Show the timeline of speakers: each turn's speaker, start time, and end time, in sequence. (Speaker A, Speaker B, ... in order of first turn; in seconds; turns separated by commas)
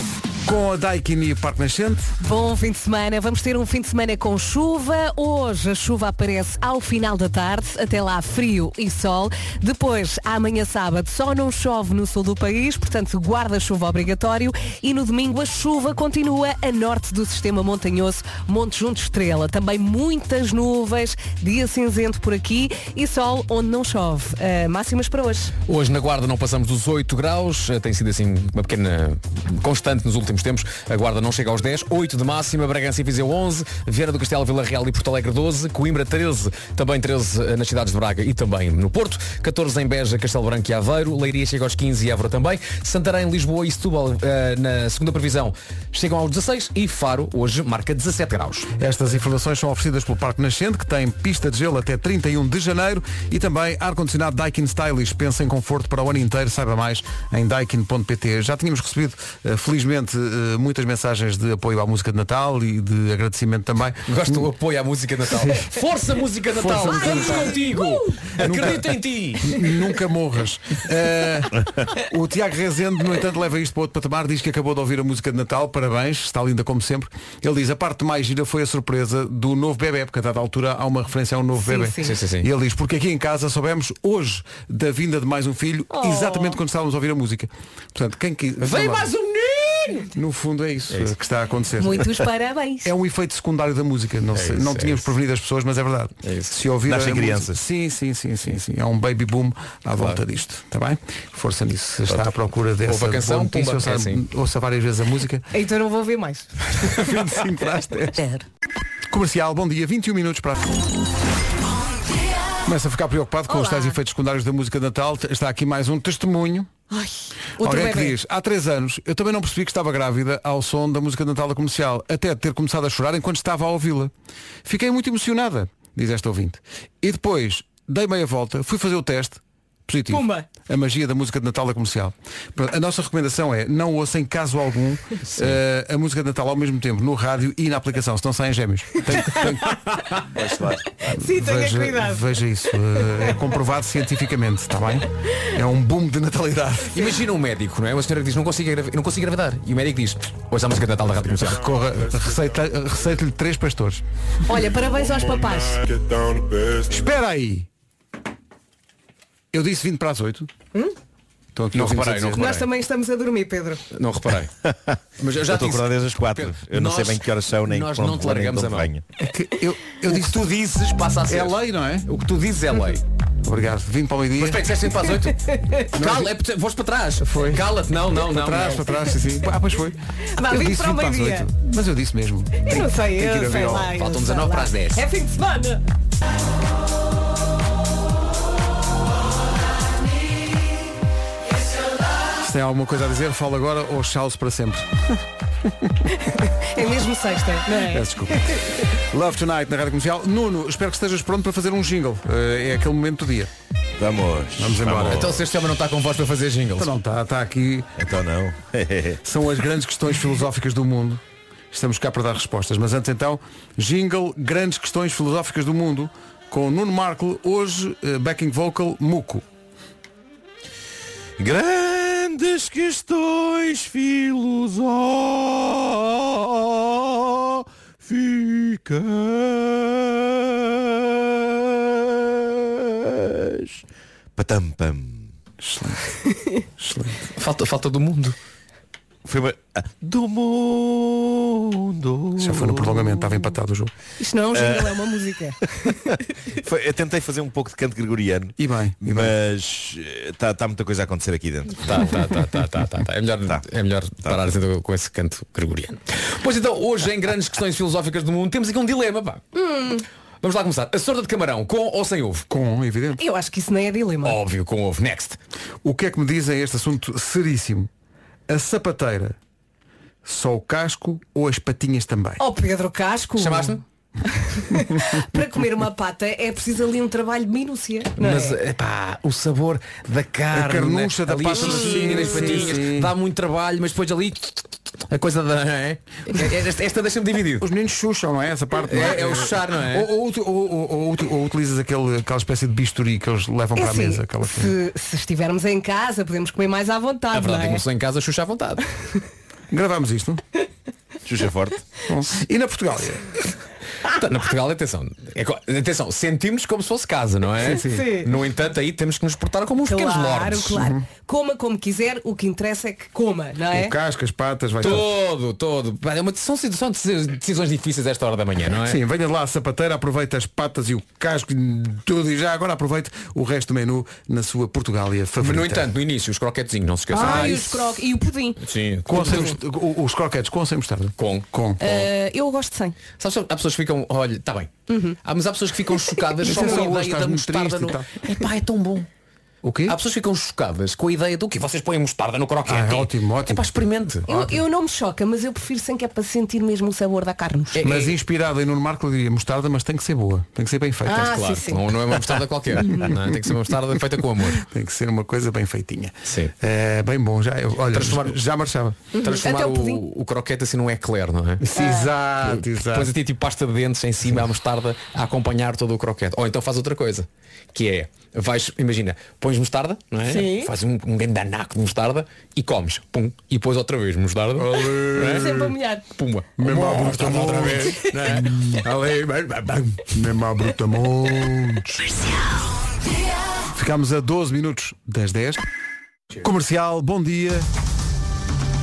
Speaker A: 0.5-2.1, Speaker B: 2.2-25.5, Speaker C: 25.7-48.7, Speaker A: 48.8-64.5, Speaker C: 64.1-69.6, Speaker A: 65.3-65.7, Speaker A: 66.5-67.6, Speaker B: 67.0-68.2, Speaker A: 68.4-89.1, Speaker B: 81.6-82.1, Speaker C: 82.0-82.5, Speaker B: 85.9-86.5, Speaker C: 88.6-90.1, Speaker A: 90.1-92.2, Speaker B: 91.8-92.9, Speaker A: 92.8-105.5, Speaker C: 94.3-95.1, Speaker C: 96.2-96.5, Speaker D: 96.9-97.6, Speaker C: 100.0-100.2, Speaker C: 102.8-104.2, Speaker B: 105.5-107.1, Speaker A: 106.8-108.2, Speaker A: 109.1-110.8, Speaker A: 112.6-116.7, Speaker B: 113.5-114.0, Speaker B: 116.9-118.1, Speaker A: 117.6-124.1, Speaker A: 124.6-140.1, Speaker B: 130.1-130.4, Speaker D: 140.4-140.9, Speaker B: 141.0-142.3, Speaker A: 141.2-147.1, Speaker C: 146.9-151.7, Speaker A: 151.4-154.0, Speaker B: 154.5-155.9, Speaker A: 156.8-157.7, Speaker A: 159.5-160.5, Speaker A: 161.6-162.5, Speaker C: 161.7-162.7, Speaker B: 162.4-163.8, Speaker C: 163.9-164.5, Speaker D: 164.7-169.0, Speaker C: 165.2-168.9, Speaker A: 169.2-170.5, Speaker C: 170.0-173.0, Speaker A: 171.3-172.1, Speaker A: 173.4-174.8, Speaker C: 174.4-179.1, Speaker B: 175.3-175.9, Speaker A: 175.9-176.3, Speaker A: 177.2-183.9, Speaker B: 180.3-181.5, Speaker B: 182.6-185.8, Speaker C: 183.9-185.1, Speaker A: 192.4-195.9, Speaker B: 196.3-198.6, Speaker A: 197.8-203.5, Speaker D: 204.0-205.4, Speaker A: 204.6-205.3, Speaker C: 205.1-206.9, Speaker A: 206.8-207.9, Speaker D: 208.0-209.2, Speaker A: 209.2-219.4, Speaker D: 221.4-233.8, Speaker D: 234.4-235.3, Speaker A: 235.6-236.2, Speaker A: 236.8-237.3, Speaker C: 237.4-238.4, Speaker D: 239.2-243.4, Speaker A: 242.4-243.9, Speaker B: 244.2-246.1, Speaker D: 244.5-245.0, Speaker D: 246.5-252.1, Speaker A: 248.6-249.3, Speaker C: 251.8-262.4, Speaker B: 259.6-260.0, Speaker A: 262.5-263.2, Speaker B: 263.2-264.4, Speaker C: 264.2-265.4, Speaker A: 265.8-267.9, Speaker A: 268.5-269.4, Speaker A: 270.2-272.4, Speaker B: 272.4-273.8, Speaker C: 273.4-273.8, Speaker B: 274.3-278.6, Speaker C: 278.2-287.7, Speaker A: 280.5-283.1, Speaker A: 287.6-294.7, Speaker C: 288.9-290.1, Speaker B: 293.8-297.8, Speaker C: 297.3-298.9, Speaker A: 299.7-300.4, Speaker D: 301.3-301.9, Speaker A: 302.1-303.3, Speaker C: 304.1-310.8, Speaker A: 307.6-308.1, Speaker B: 307.7-308.3, Speaker B: 309.9-313.9, Speaker A: 310.8-311.0, Speaker A: 313.7-315.1, Speaker C: 314.8-319.0, Speaker A: 318.8-325.9, Speaker C: 325.4-328.0, Speaker B: 327.1-328.6, Speaker A: 327.2-327.7, Speaker C: 328.6-329.6, Speaker A: 329.1-331.8, Speaker C: 331.2-332.1, Speaker B: 331.8-333.0, Speaker C: 333.2-339.1, Speaker B: 334.9-335.2, Speaker A: 336.4-338.1, Speaker A: 339.6-339.9, Speaker C: 339.9-344.4, Speaker A: 342.7-343.7, Speaker B: 344.3-347.8, Speaker C: 347.7-348.2, Speaker A: 347.8-351.4, Speaker B: 351.1-351.9, Speaker C: 351.1-354.7, Speaker A: 354.5-359.0, Speaker C: 356.3-356.5, Speaker C: 357.9-358.4, Speaker B: 359.1-360.0, Speaker C: 359.2-361.7, Speaker A: 361.6-363.1, Speaker B: 361.8-362.0, Speaker C: 362.4-380.1, Speaker B: 370.3-370.7, Speaker A: 374.6-375.7, Speaker B: 375.2-376.1, Speaker A: 376.6-378.8, Speaker A: 380.1-382.2, Speaker A: 383.7-385.6, Speaker A: 386.4-387.7